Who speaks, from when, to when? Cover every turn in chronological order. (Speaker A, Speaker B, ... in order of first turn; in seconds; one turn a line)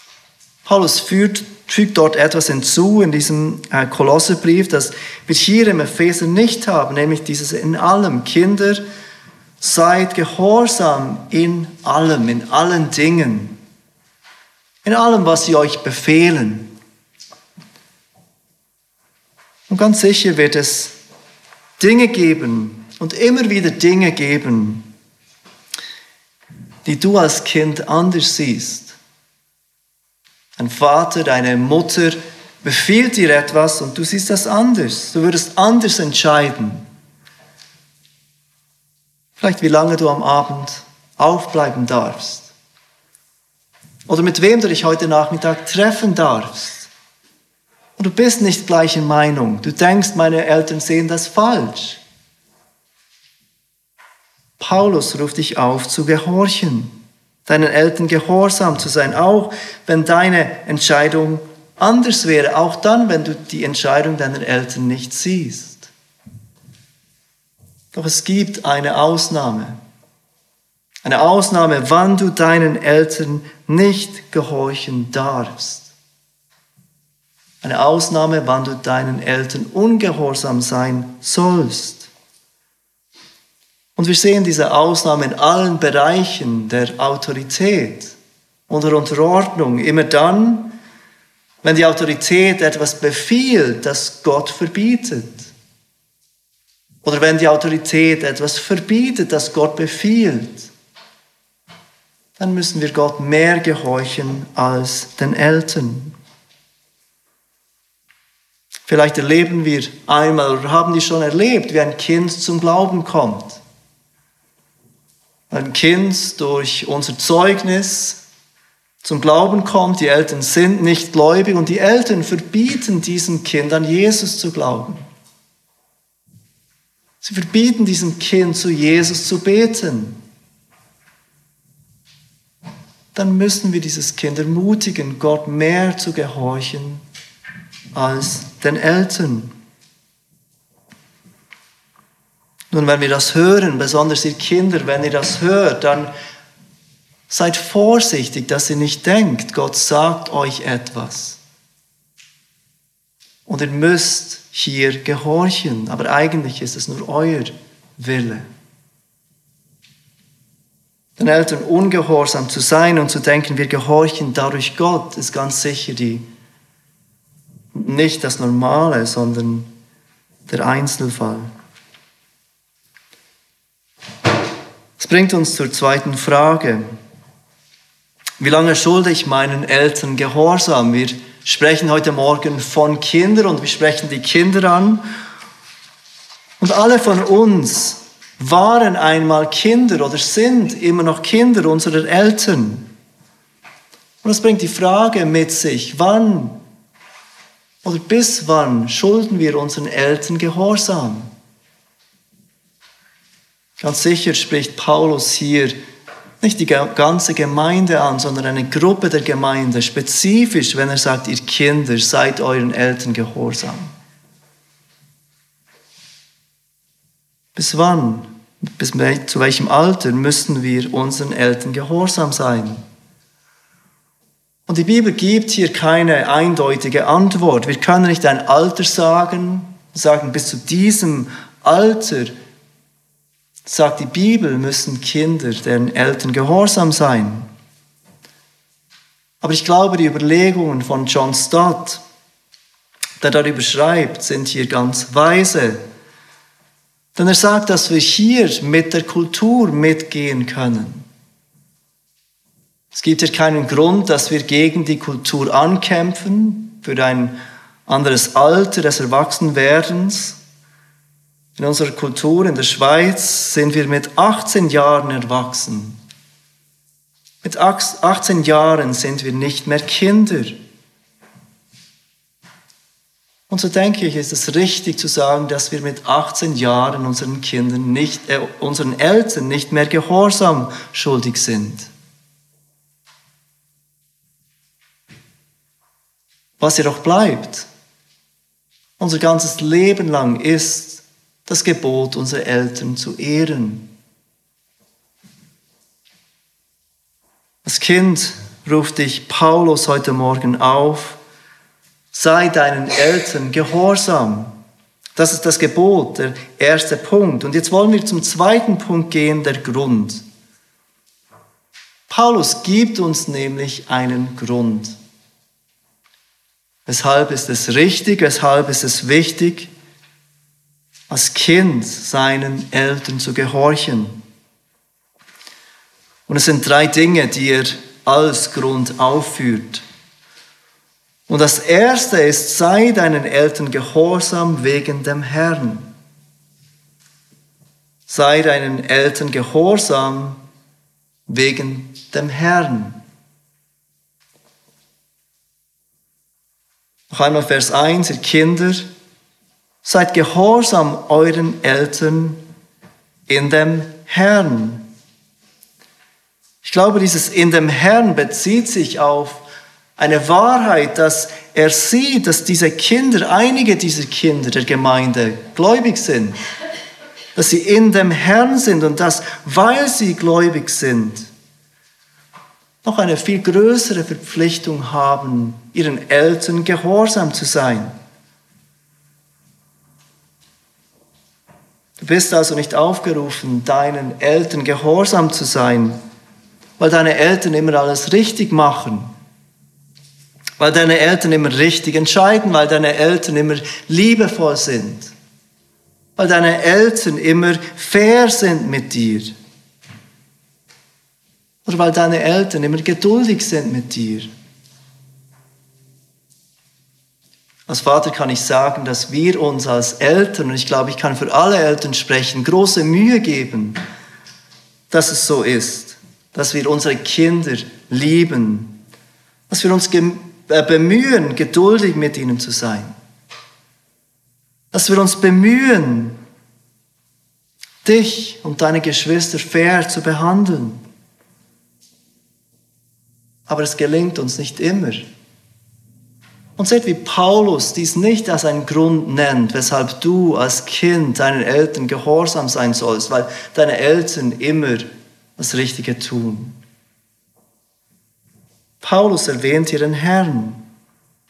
Speaker A: 0.7-8.8
Speaker A: 9.6-13.6
Speaker A: 14.8-16.7
Speaker A: 19.7-20.9
Speaker A: 21.8-24.8
Speaker A: 26.9-29.0
Speaker A: 30.6-36.9
Speaker A: 39.4-42.5
Speaker A: 44.1-46.9
Speaker A: 48.0-52.0
Speaker A: 54.6-56.9
Speaker A: 57.5-65.9
Speaker A: 67.9-69.8
Speaker A: 71.0-75.9
Speaker A: 77.6-82.1
Speaker A: 84.0-88.2
Speaker A: 88.7-90.8
Speaker A: 91.6-95.5
Speaker A: 97.0-100.7
Speaker A: 102.4-106.2
Speaker A: 108.9-113.6
Speaker A: 115.5-118.2
Speaker A: 119.0-125.1
Speaker A: 127.2-130.2
Speaker A: 133.1-137.0
Speaker A: 137.9-139.5
Speaker A: 142.7-146.1
Speaker A: 147.3-151.4
Speaker A: 153.5-158.5
Speaker A: 161.2-166.2
Speaker A: 167.7-169.7
Speaker A: 170.5-171.5
Speaker A: 175.0-176.9
Speaker A: 178.4-185.0
Speaker A: 186.6-192.9
Speaker A: 194.2-196.6
Speaker A: 197.8-201.3
Speaker A: 203.8-205.8
Speaker A: 206.4-213.9
Speaker A: 217.6-222.8
Speaker A: 224.7-232.3
Speaker A: 233.7-237.5
Speaker A: 239.4-242.0
Speaker A: 243.2-245.8
Speaker A: 247.2-251.1
Speaker A: 252.9-257.4
Speaker A: 257.9-260.4
Speaker A: 261.6-266.0
Speaker A: 267.4-270.6
Speaker A: 273.5-281.9
Speaker A: 286.6-287.7
Speaker A: 289.0-293.9
Speaker A: 297.6-301.2
Speaker A: 302.1-304.5
Speaker A: 305.2-310.2
Speaker A: 312.1-315.0
Speaker A: 316.9-319.7
Speaker A: 321.1-324.2
Speaker A: 326.3-329.8
Speaker A: 331.3-335.9
Speaker A: 338.1-340.4
Speaker A: 341.3-343.0
Speaker A: 347.1-348.9
Speaker A: 349.8-352.4
Speaker A: 353.3-354.8
Speaker A: 356.6-359.4
Speaker A: 360.0-366.4
Speaker A: 367.4-371.3
Speaker A: 372.8-377.9
Speaker A: 382.0-386.0
Speaker A: 386.8-389.1
Speaker A: 390.6-395.1
Speaker A: 396.2-399.3
Speaker A: 401.6-404.3
Speaker A: 407.7-413.8
Speaker A: 414.9-418.7
Speaker A: 419.5-422.9
Speaker A: 424.7-426.2
Speaker A: 427.8-430.8
Speaker A: 433.5-435.1
Speaker A: 436.6-446.6
Speaker A: 448.8-450.6